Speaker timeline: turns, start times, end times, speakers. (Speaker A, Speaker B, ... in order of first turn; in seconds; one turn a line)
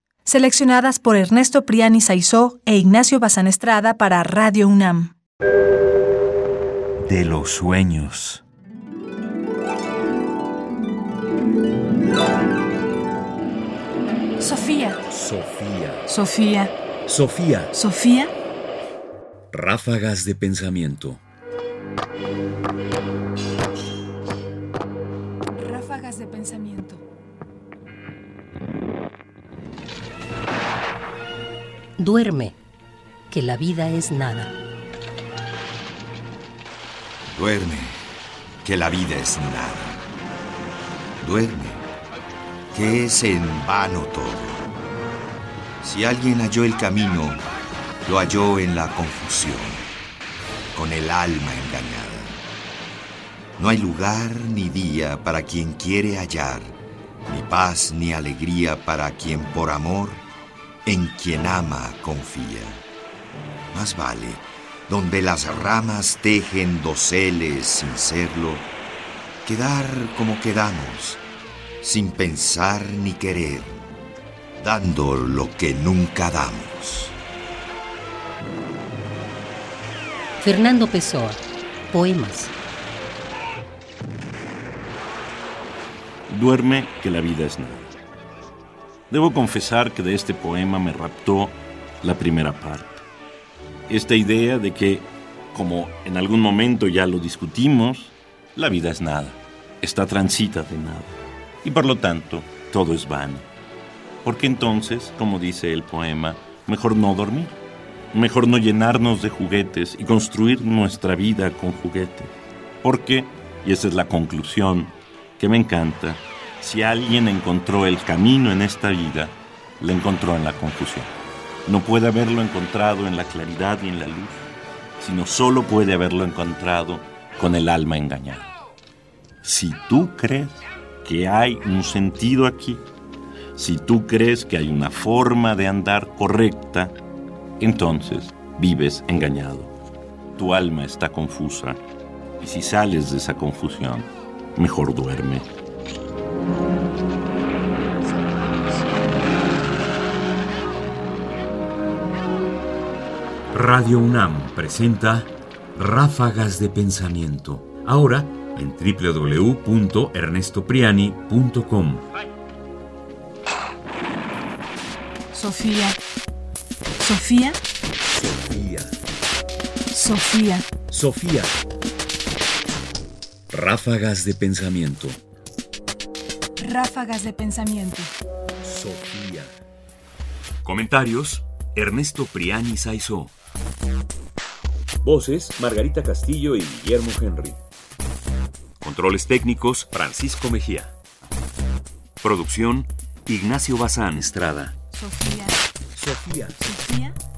Speaker A: 0.2-5.2
Speaker B: 7.0-8.4
Speaker A: 14.4-15.0
Speaker B: 15.1-16.0
Speaker A: 16.1-16.7
Speaker B: 17.1-17.7
Speaker A: 17.7-18.3
Speaker B: 19.5-21.2
Speaker A: 25.5-27.0
Speaker C: 32.0-32.6
Speaker C: 33.3-34.5
Speaker D: 37.3-38.0
Speaker D: 38.6-40.0
Speaker D: 41.2-41.8
Speaker D: 42.7-44.6
Speaker D: 45.8-47.4
Speaker D: 48.0-49.9
Speaker D: 50.7-52.4
Speaker D: 53.6-56.8
Speaker D: 57.3-60.2
Speaker D: 60.9-62.8
Speaker D: 63.7-68.7
Speaker D: 69.4-71.2
Speaker D: 71.8-73.8
Speaker D: 74.6-77.1
Speaker C: 80.4-82.5
Speaker E: 86.3-87.9
Speaker E: 89.1-93.0
Speaker E: 93.9-103.5
Speaker E: 104.2-107.6
Speaker E: 108.1-112.3
Speaker E: 112.8-121.1
Speaker E: 121.7-128.5
Speaker E: 129.4-132.8
Speaker E: 133.5-137.0
Speaker E: 137.6-139.7
Speaker E: 140.3-141.8
Speaker E: 142.4-145.5
Speaker B: 153.5-162.0
Speaker A: 165.3-166.0
Speaker A: 167.0-167.6
Speaker B: 168.1-169.0
Speaker A: 169.9-170.7
Speaker B: 170.9-171.6
Speaker B: 173.5-175.2
Speaker A: 176.6-178.1
Speaker B: 178.6-179.6
Speaker B: 180.6-183.3
Speaker B: 185.0-187.6
Speaker B: 188.8-190.9
Speaker B: 192.2-194.7
Speaker A: 194.9-195.6
Speaker B: 195.9-196.6
Speaker A: 196.6-197.2